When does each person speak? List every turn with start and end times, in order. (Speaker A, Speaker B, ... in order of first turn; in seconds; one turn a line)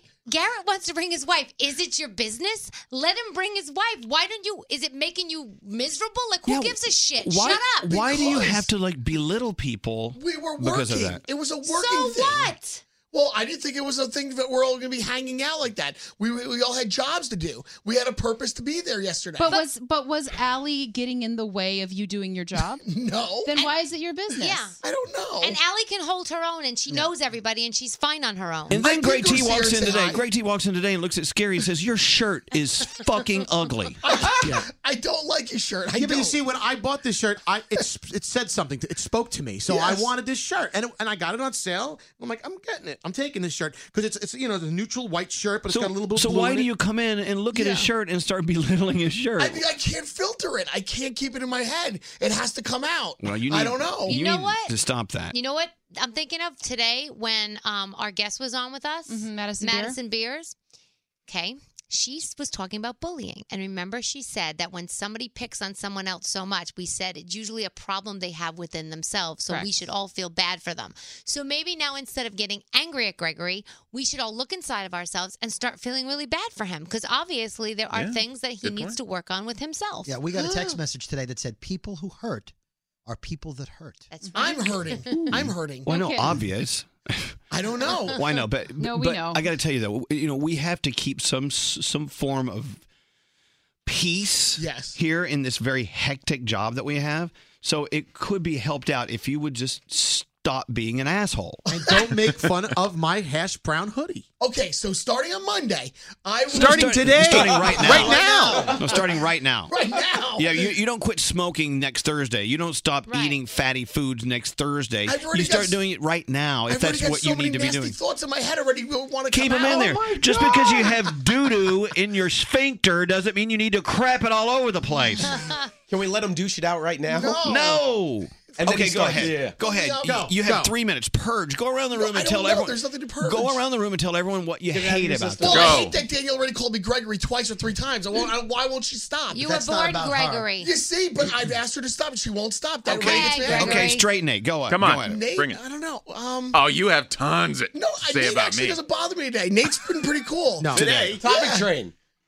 Speaker A: 0.2-8.1
Speaker B: 6.5-11.2
Speaker C: 7.9-8.7
Speaker C: 10.2-12.5
Speaker A: 11.6-12.8
Speaker C: 13.1-19.6
Speaker D: 19.4-22.8
Speaker C: 22.9-23.5
Speaker D: 23.4-24.8
Speaker A: 24.4-24.8
Speaker C: 24.8-25.6
Speaker A: 25.4-28.8
Speaker B: 28.7-34.0
Speaker C: 28.7-30.2
Speaker C: 34.0-36.4
Speaker E: 36.0-46.7
Speaker B: 45.7-49.6
Speaker C: 47.5-47.9
Speaker C: 49.4-54.2
Speaker B: 53.2-55.4
Speaker A: 54.0-54.8
Speaker A: 55.3-60.6
Speaker D: 59.1-60.0
Speaker A: 61.3-80.2
Speaker D: 69.5-69.8
Speaker F: 77.9-79.0
Speaker G: 80.1-82.5
Speaker C: 80.4-80.7
Speaker G: 83.1-84.1
Speaker A: 84.1-85.4
Speaker C: 84.4-85.9
Speaker B: 85.4-87.4
Speaker D: 85.8-86.4
Speaker C: 87.5-88.1
Speaker B: 88.1-92.8
Speaker D: 88.8-89.5
Speaker B: 93.9-101.7
Speaker C: 94.6-95.0
Speaker E: 101.7-104.3
Speaker C: 104.4-109.0
Speaker F: 106.5-107.0
Speaker B: 106.5-109.7
Speaker E: 106.7-108.7
Speaker C: 109.7-110.7
Speaker B: 110.4-118.0
Speaker A: 113.1-113.4
Speaker C: 115.1-115.8
Speaker C: 116.7-120.6
Speaker B: 119.3-125.5
Speaker H: 125.9-127.4
Speaker C: 127.1-127.8
Speaker B: 127.4-135.6
Speaker H: 128.6-129.6
Speaker C: 129.6-130.3
Speaker E: 130.0-130.7
Speaker C: 131.9-133.6
Speaker E: 135.2-135.7
Speaker C: 135.4-139.4
Speaker F: 135.4-136.0
Speaker A: 139.3-140.7
Speaker G: 139.4-140.5
Speaker C: 140.6-143.9
Speaker A: 142.9-144.1
Speaker B: 143.6-145.2
Speaker F: 144.7-145.6
Speaker C: 145.0-146.6
Speaker F: 146.5-148.8
Speaker C: 147.7-151.7
Speaker E: 150.6-151.5
Speaker H: 150.7-151.9